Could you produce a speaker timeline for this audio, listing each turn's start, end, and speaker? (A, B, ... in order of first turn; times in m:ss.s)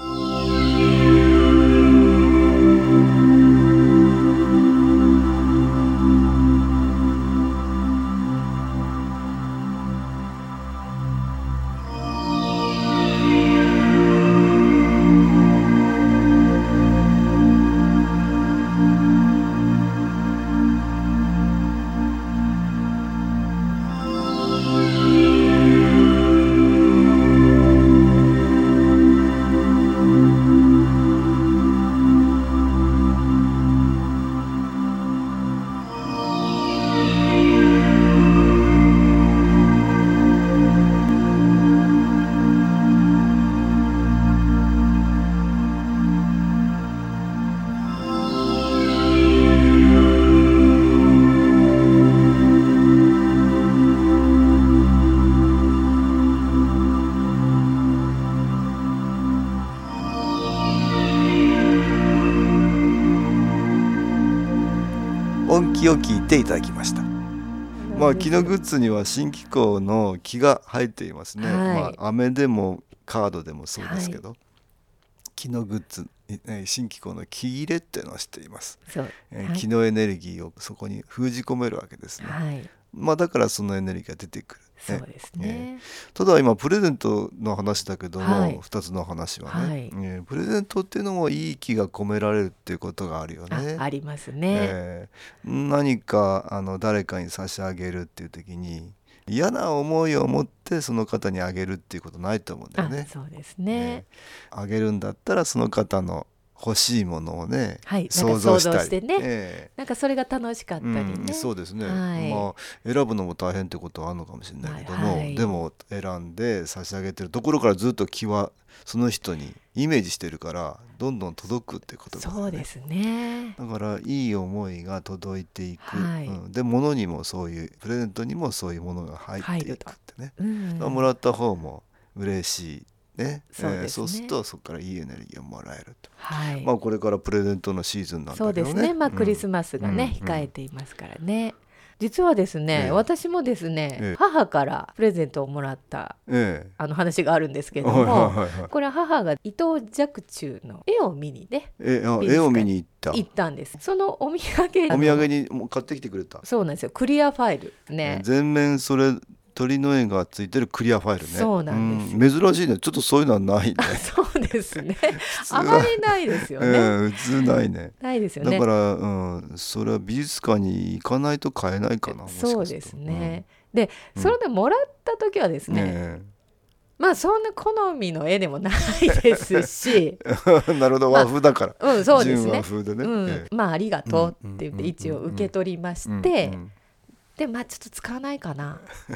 1:05.5-1:07.1 A
1:07.8-1:08.6 B
1:07.9-1:14.4 A
1:11.4-1:12.0 B
1:13.8-1:14.2 B
1:15.4-1:22.4 A
1:18.9-1:19.6 B
1:22.2-1:22.7 B
1:22.9-1:33.8 A
1:24.8-1:25.8 B
1:28.2-1:28.6 B
1:29.4-1:29.9 B
1:33.5-1:34.7 B
1:34.5-1:43.1 A
1:42.8-1:44.0 B
1:43.7-1:49.7 A
1:47.8-1:52.5 B
1:50.8-2:02.6 A
1:54.6-1:55.6 B
2:02.1-2:03.6 B
2:03.6-2:20.5 A
2:05.8-2:06.4 B
2:09.4-2:11.1 B
2:13.5-2:14.4 B
2:16.2-2:16.7 B
2:18.3-2:26.2 B
2:22.7-2:23.0 A
2:26.3-2:26.7 A
2:26.8-2:35.3 B
2:27.8-2:28.7 A
2:31.8-2:33.2 A
2:34.9-2:36.4 A
2:36.4-2:38.2 B
2:38.0-2:44.1 A
2:41.2-2:42.2 B
2:43.8-2:47.0 B
2:45.1-2:53.4 A
2:48.0-2:48.6 B
2:52.1-2:56.0 B
2:55.7-2:56.3 A
2:57.0-3:00.2 B
3:00.2-3:03.5 A
3:01.1-3:06.6 B
3:04.0-3:05.5 A
3:06.0-3:06.7 A
3:07.4-3:08.9 B